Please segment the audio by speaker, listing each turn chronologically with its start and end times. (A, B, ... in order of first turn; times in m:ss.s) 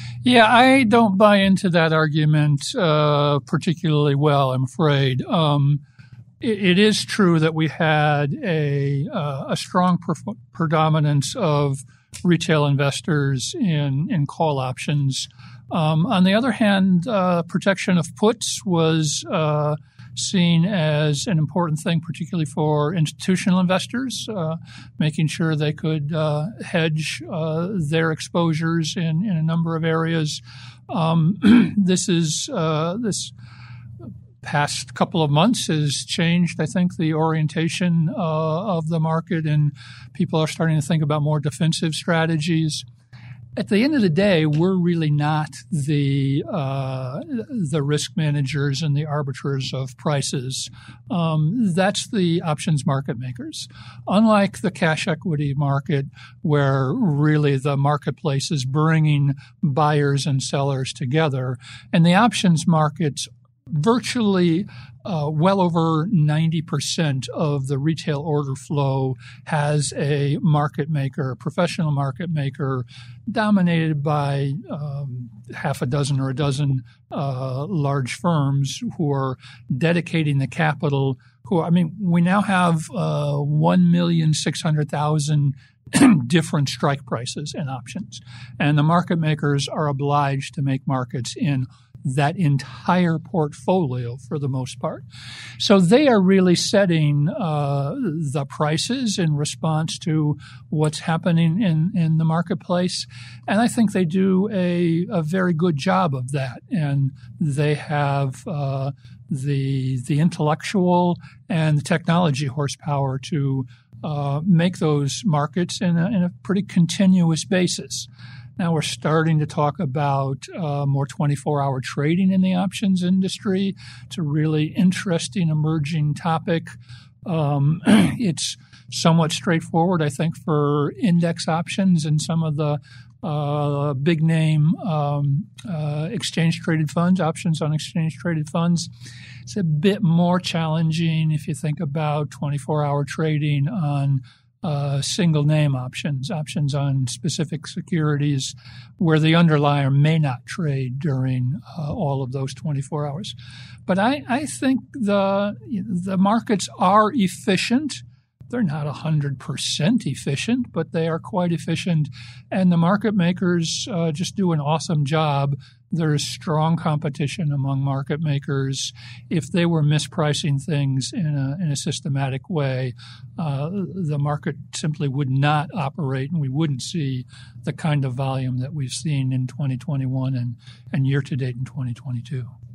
0:00.2-0:05.8 A
0:06.4-0:33.3 A
0:34.4-0:42.8 A
0:43.6-1:35.0 A
1:35.6-2:06.7 A
2:07.2-2:18.9 A
2:19.4-2:33.3 A
2:33.9-3:02.5 A